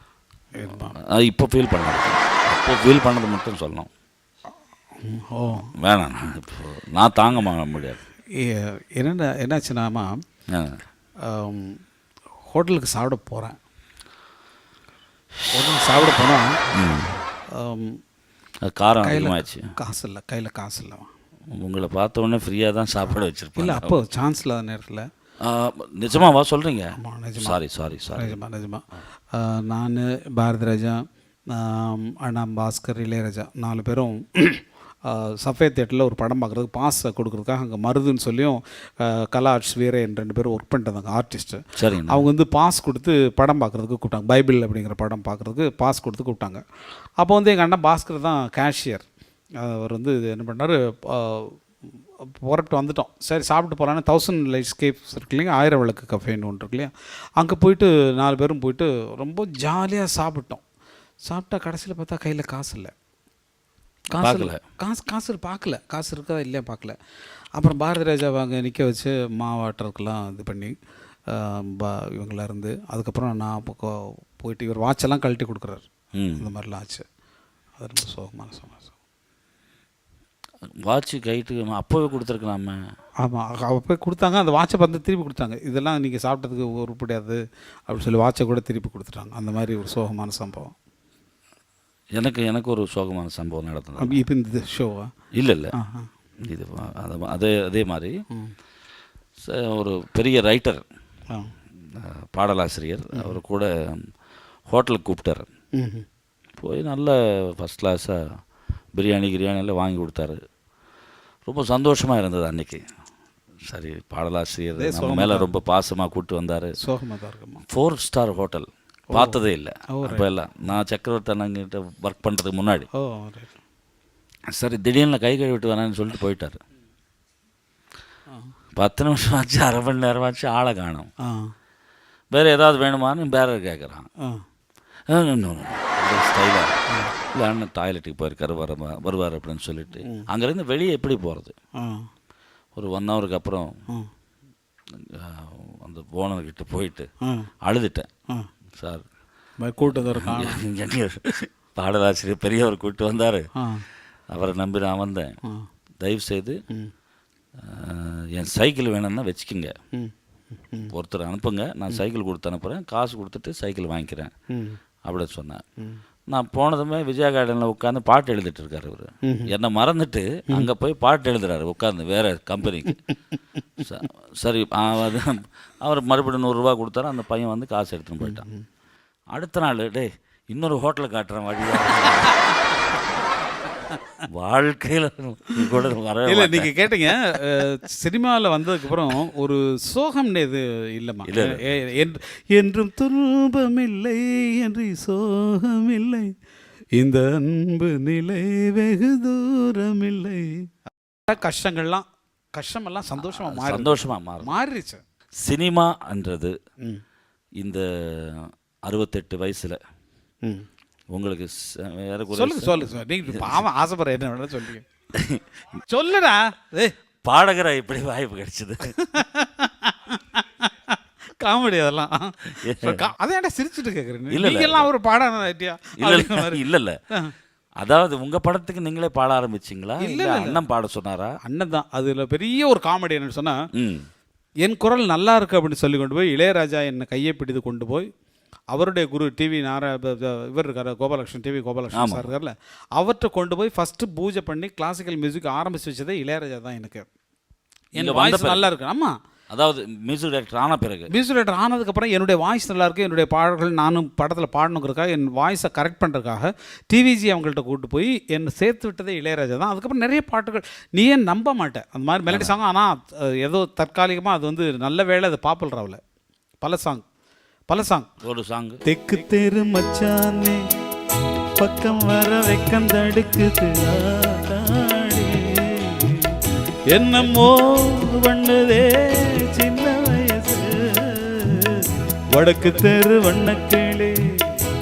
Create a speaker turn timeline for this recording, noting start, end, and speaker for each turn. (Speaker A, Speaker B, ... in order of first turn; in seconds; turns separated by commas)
Speaker A: 0.6-1.0, Speaker B: 1.0-3.9, Speaker A: 5.0-5.7, Speaker B: 5.8-8.0, Speaker A: 8.3-10.1, Speaker B: 10.5-10.8, Speaker A: 11.2-11.8, Speaker A: 12.5-13.6, Speaker A: 15.5-16.5, Speaker B: 16.7-17.2, Speaker A: 17.5-18.0, Speaker B: 18.7-19.7, Speaker A: 19.0-21.1, Speaker B: 21.6-23.9, Speaker A: 23.6-25.1, Speaker B: 25.4-28.4, Speaker A: 27.0-27.6, Speaker A: 28.1-46.6, Speaker B: 41.8-42.3, Speaker A: 47.2-49.0, Speaker A: 49.6-51.6, Speaker A: 52.4-60.6, Speaker A: 61.3-62.9, Speaker A: 64.1-67.0, Speaker B: 64.2-64.6, Speaker A: 67.6-70.7, Speaker A: 71.3-75.8, Speaker B: 76.2-76.5, Speaker A: 76.4-77.0, Speaker A: 77.8-78.9, Speaker B: 80.8-82.8, Speaker A: 83.2-90.7, Speaker B: 92.2-94.2, Speaker A: 94.0-95.1, Speaker B: 95.4-95.7, Speaker A: 95.7-96.1, Speaker B: 96.5-98.1, Speaker B: 99.4-100.8, Speaker B: 101.9-104.1, Speaker B: 104.7-105.5, Speaker A: 105.8-106.0, Speaker B: 106.6-108.2, Speaker B: 109.0-110.4, Speaker B: 111.5-112.8, Speaker B: 113.7-116.7, Speaker A: 114.8-115.5, Speaker A: 116.8-117.6, Speaker B: 117.7-122.9, Speaker A: 119.1-119.4, Speaker A: 119.9-120.3, Speaker A: 123.0-123.5, Speaker B: 124.5-126.6, Speaker B: 128.8-131.1, Speaker A: 131.2-131.5, Speaker B: 132.3-134.1, Speaker B: 135.1-136.7, Speaker B: 137.3-141.5, Speaker A: 141.8-142.1, Speaker B: 142.8-143.7, Speaker B: 144.9-147.1, Speaker A: 147.2-147.5, Speaker B: 147.6-148.1, Speaker B: 148.8-149.0, Speaker A: 149.6-150.6, Speaker B: 149.9-153.5, Speaker A: 153.6-153.8, Speaker B: 154.3-155.3, Speaker B: 156.0-156.6, Speaker B: 157.6-159.7, Speaker B: 160.9-164.3, Speaker A: 164.5-164.8, Speaker B: 165.1-165.6, Speaker B: 166.3-173.0, Speaker A: 169.2-169.5, Speaker B: 173.8-178.4, Speaker A: 178.2-178.7, Speaker B: 179.3-182.4, Speaker A: 181.8-182.6, Speaker B: 184.3-187.2, Speaker A: 186.3-196.3, Speaker B: 191.3-191.6, Speaker A: 197.0-200.7, Speaker A: 201.3-205.0, Speaker B: 203.2-204.5, Speaker B: 205.4-206.6, Speaker B: 207.6-209.8, Speaker B: 211.1-213.7, Speaker A: 212.3-214.8, Speaker B: 215.2-215.4, Speaker A: 215.9-216.9, Speaker B: 217.2-218.9, Speaker A: 218.9-227.3, Speaker B: 222.6-223.1, Speaker B: 224.3-224.9, Speaker B: 226.0-227.0, Speaker B: 227.8-231.4, Speaker A: 230.0-230.6, Speaker A: 231.4-233.6, Speaker B: 233.8-234.1, Speaker A: 234.7-238.1, Speaker A: 238.7-247.1, Speaker B: 241.9-242.3, Speaker A: 248.0-249.1, Speaker B: 248.0-248.7, Speaker B: 249.5-251.1, Speaker A: 251.1-266.0, Speaker B: 262.3-262.5, Speaker A: 266.6-267.1, Speaker A: 267.7-268.1, Speaker B: 268.2-268.8, Speaker A: 268.9-270.6, Speaker A: 271.6-276.4, Speaker A: 276.9-284.2